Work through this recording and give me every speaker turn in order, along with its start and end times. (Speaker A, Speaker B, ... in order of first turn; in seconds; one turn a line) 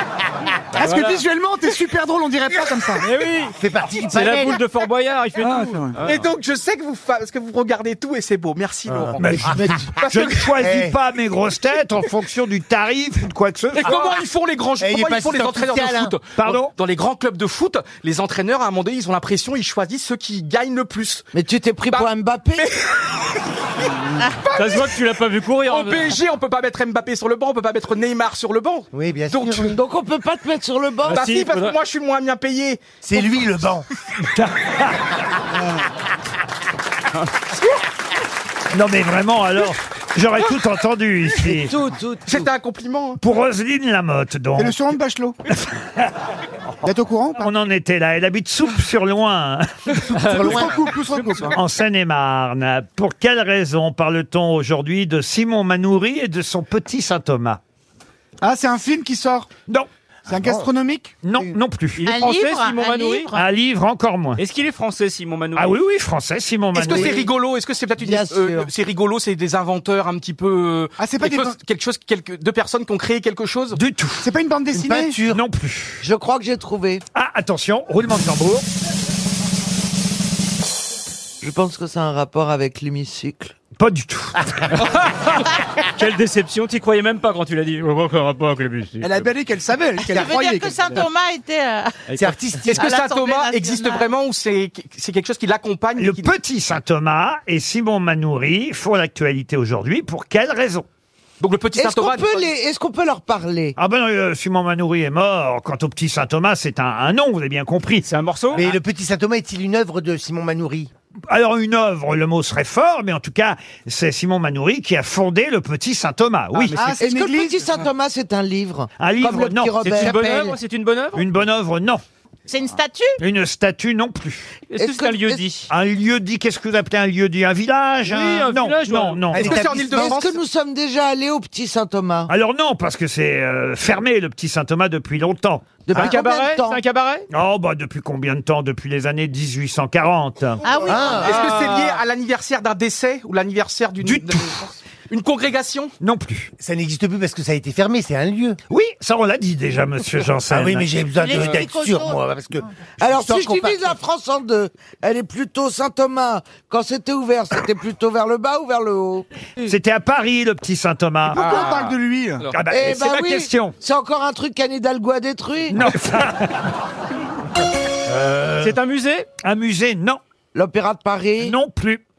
Speaker A: 0.8-3.1
Speaker B: 0.8-1.2
Speaker B: 3.0-6.2
Speaker C: 3.6-4.6
Speaker A: 5.4-6.0
Speaker D: 6.0-10.5
Speaker C: 8.9-10.1
Speaker E: 9.2-14.1
Speaker C: 10.6-11.0
Speaker D: 13.7-21.2
Speaker C: 14.8-16.1
Speaker E: 16.4-16.7
Speaker F: 21.3-22.7
Speaker D: 21.9-22.9
Speaker D: 24.2-25.0
Speaker B: 24.5-26.2
Speaker D: 25.7-29.7
Speaker C: 28.9-29.8
Speaker F: 29.7-31.2
Speaker B: 31.1-31.8
Speaker D: 31.1-33.3
Speaker C: 33.0-33.9
Speaker E: 34.3-35.0
Speaker A: 35.5-35.9
Speaker E: 38.7-41.7
Speaker F: 41.4-42.4
Speaker D: 42.3-43.2
Speaker E: 43.2-44.9
Speaker A: 44.6-45.4
Speaker E: 45.7-46.1
Speaker A: 46.8-47.5
Speaker E: 47.4-50.1
Speaker B: 50.1-51.5
Speaker A: 50.2-51.6
Speaker C: 50.3-50.7
Speaker E: 51.5-57.6
Speaker A: 58.4-59.5
Speaker A: 60.3-61.6
Speaker C: 60.3-60.7
Speaker E: 61.2-62.0
Speaker B: 62.0-63.3
Speaker G: 62.1-63.4
Speaker E: 63.3-64.4
Speaker B: 64.4-65.8
Speaker E: 65.5-67.2
Speaker D: 66.7-73.8
Speaker C: 66.9-67.2
Speaker C: 68.0-68.6
Speaker F: 68.1-68.4
Speaker A: 71.0-71.6
Speaker E: 73.8-74.3
Speaker A: 74.2-75.2
Speaker C: 74.7-75.4
Speaker E: 75.3-76.0
Speaker F: 76.0-77.0
Speaker E: 77.1-78.7
Speaker F: 81.4-83.5
Speaker E: 83.8-84.8
Speaker B: 84.8-89.2
Speaker A: 89.0-91.1
Speaker G: 90.1-92.0
Speaker B: 92.1-92.4
Speaker C: 92.1-92.8
Speaker D: 92.6-96.3
Speaker G: 92.7-94.1
Speaker E: 96.0-100.8
Speaker D: 101.4-102.5
Speaker F: 101.8-103.8
Speaker E: 103.8-108.1
Speaker B: 108.0-108.7
Speaker C: 108.5-110.9
Speaker E: 111.3-116.9
Speaker B: 116.5-117.0
Speaker A: 116.7-117.6
Speaker F: 117.0-120.6
Speaker E: 119.0-120.2
Speaker B: 119.8-121.3
Speaker E: 121.2-122.0
Speaker G: 122.5-123.2
Speaker E: 123.2-124.6
Speaker B: 124.7-125.7
Speaker F: 124.8-125.4
Speaker E: 125.7-129.6
Speaker B: 128.1-129.3
Speaker D: 129.3-130.4
Speaker C: 129.3-130.1
Speaker F: 129.4-132.3
Speaker E: 132.3-135.8
Speaker F: 135.8-136.8
Speaker B: 135.9-137.3
Speaker E: 137.3-140.6
Speaker G: 140.6-141.4
Speaker C: 140.9-141.5
Speaker D: 141.2-145.9
Speaker B: 141.3-141.7
Speaker E: 144.0-144.6
Speaker E: 146.0-146.5
Speaker C: 146.6-148.6
Speaker E: 148.7-151.0
Speaker C: 150.5-153.8
Speaker G: 151.2-152.2
Speaker F: 153.0-159.3
Speaker E: 159.6-161.9
Speaker A: 161.3-162.5
Speaker D: 161.4-161.7
Speaker B: 161.5-161.9
Speaker E: 162.5-163.8
Speaker F: 162.7-165.8
Speaker E: 165.7-166.7
Speaker C: 168.1-168.8
Speaker B: 168.6-169.3
Speaker E: 169.4-170.2
Speaker F: 170.5-171.6
Speaker E: 171.4-172.0